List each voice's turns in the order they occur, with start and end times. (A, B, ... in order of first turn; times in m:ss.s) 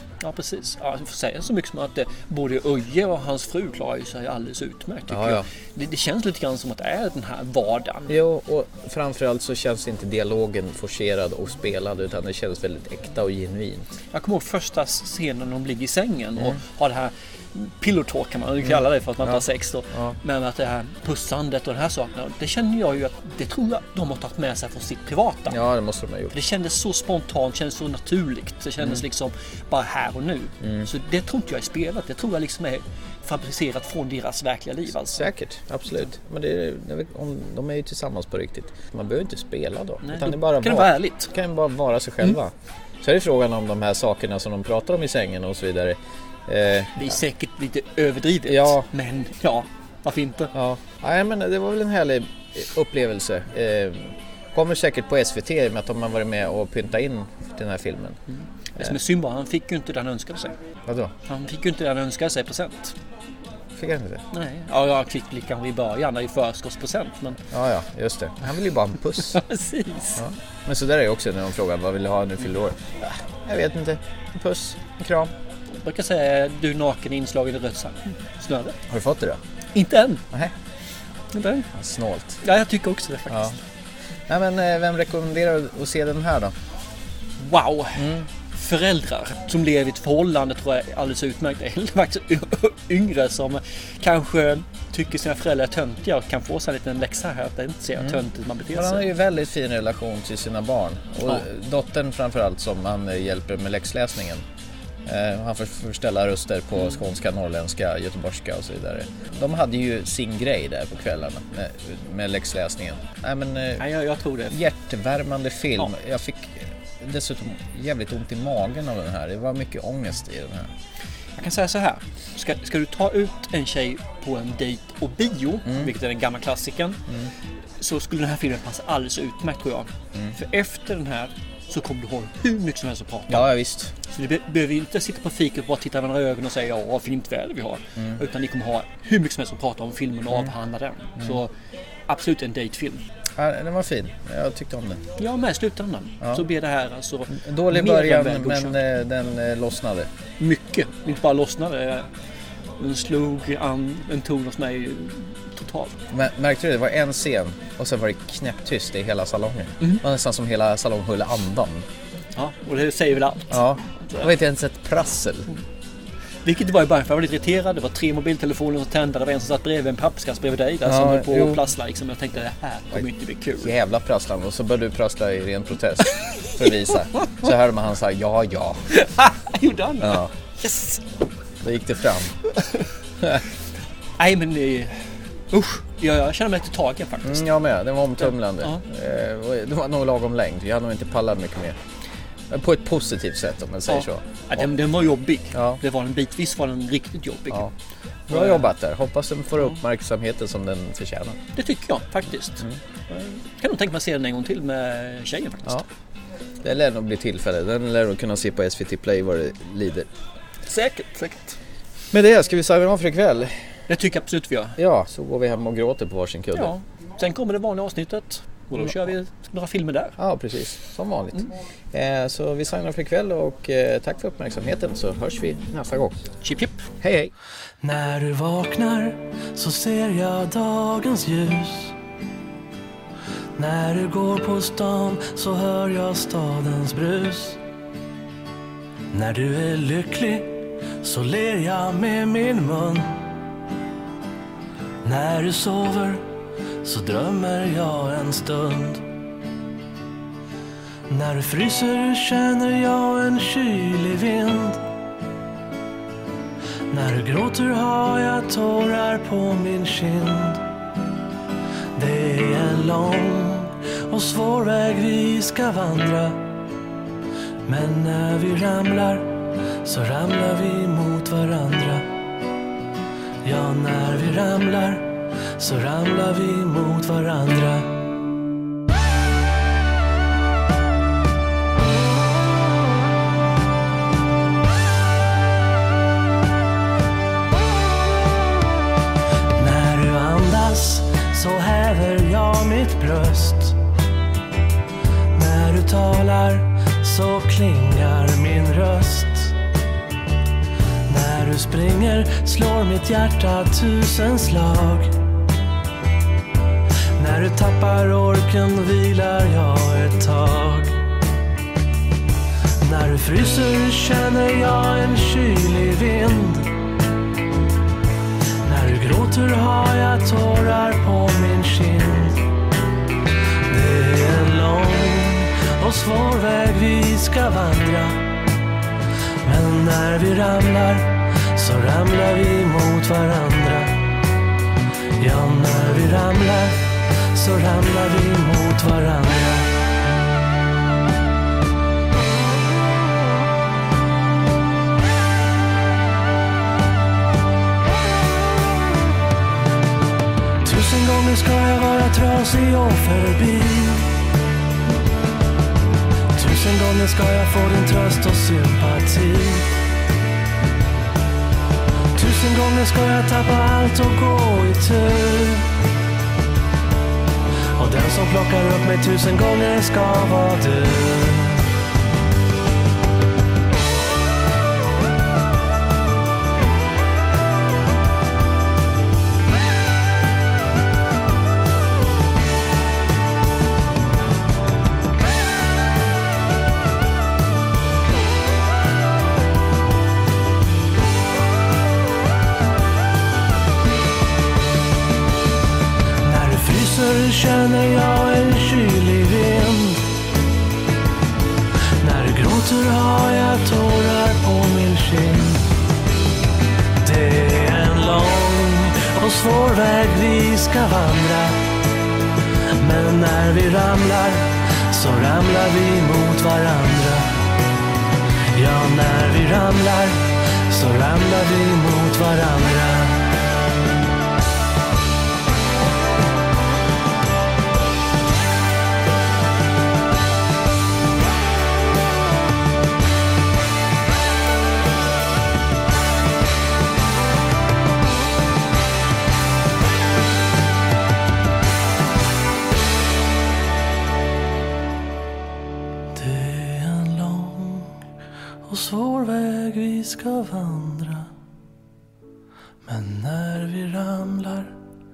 0:00.2-0:08.2 A
0:05.1-0:05.5 B
0:08.1-0:14.0 B
0:14.1-0:25.6 A
0:18.6-0:20.2 B
0:25.5-0:26.3 B
0:26.3-0:35.3 A
0:30.6-0:30.9 B
0:35.2-0:47.2 B
0:40.0-0:41.3 A
0:47.0-0:50.5 A
0:48.5-0:48.9 B
0:50.5-0:58.2 B
0:58.7-1:00.6 A
1:00.9-1:01.1 B
1:01.3-1:03.0 A
1:03.8-1:04.2 B
1:04.3-1:07.4 A
1:07.5-1:09.4 B
1:09.2-1:10.2 A
1:10.2-1:15.3 B
1:15.7-1:18.8 A
1:18.9-1:19.4 B
1:19.7-1:20.3 A
1:21.3-1:21.7 A
1:21.7-1:22.4 B
1:22.4-1:23.6 A
1:23.3-1:23.6 B
1:24.3-1:26.5 B
1:27.4-1:39.1 A
1:28.0-1:28.3 B
1:38.7-1:44.4 B
1:45.0-1:53.8 B
1:53.8-1:54.6 A
1:54.5-2:00.7 B
2:01.4-2:07.0 A
2:05.7-2:05.9 B
2:07.8-2:13.5 A
2:13.3-2:13.9 B
2:14.1-2:21.5 A
2:22.1-2:23.0 A
2:23.4-2:25.0 B
2:25.2-2:28.8 A
2:27.3-2:30.1 B
2:30.4-2:32.1 A
2:32.8-2:36.0 A
2:36.1-2:41.9 B
2:42.4-2:44.3 A
2:43.5-2:45.5 B
2:46.4-2:53.7 A
2:50.9-2:51.6 B
2:53.6-2:59.0 B
2:58.9-3:01.0 A
3:00.0-3:00.3 B
3:01.6-3:02.3 B
3:04.2-3:07.4 A
3:07.2-3:11.8 B
3:08.2-3:08.8 A
3:12.5-3:14.7 B
3:13.9-3:17.7 A
3:15.5-3:15.8 B
3:18.3-3:21.4 B
3:18.3-3:18.7 A
3:21.6-3:25.8 A
3:26.6-3:30.1 B
3:30.7-3:31.6 A
3:32.1-3:33.5 B
3:33.9-3:34.8 A
3:34.8-3:36.7 B
3:36.5-3:40.2 A
3:40.2-3:46.2 B
3:46.4-3:46.9 A
3:47.0-3:47.3 B
3:47.8-3:52.0 C
3:53.6-3:57.6 C
3:59.1-4:03.2 C
4:05.0-4:06.2 C
4:06.8-4:09.0 C
4:11.1-4:14.8 C
4:16.9-4:20.6 C
4:22.0-4:26.4 C
4:27.7-4:29.3 C
4:29.8-4:32.1 C
4:33.4-4:38.0 C
4:49.6-4:53.8 C
4:55.3-4:59.5 C
5:01.1-5:05.2 C
5:07.2-5:11.0 C
5:12.8-5:16.7 C
5:18.6-5:22.4 C
5:23.7-5:28.2 C
5:29.4-5:33.9 C
5:35.2-5:39.7 C
5:50.6-5:54.1 C
5:56.4-5:59.7 C
6:02.2-6:05.7 C
6:07.8-6:11.6 C
6:36.2-6:40.0 C
6:42.0-6:45.6 C
6:47.0-6:51.6 C
6:52.8-6:57.3 C
6:58.6-7:03.2 C
7:26.1-7:28.0 C
7:28.7-7:31.3 C
7:32.8-7:34.8 C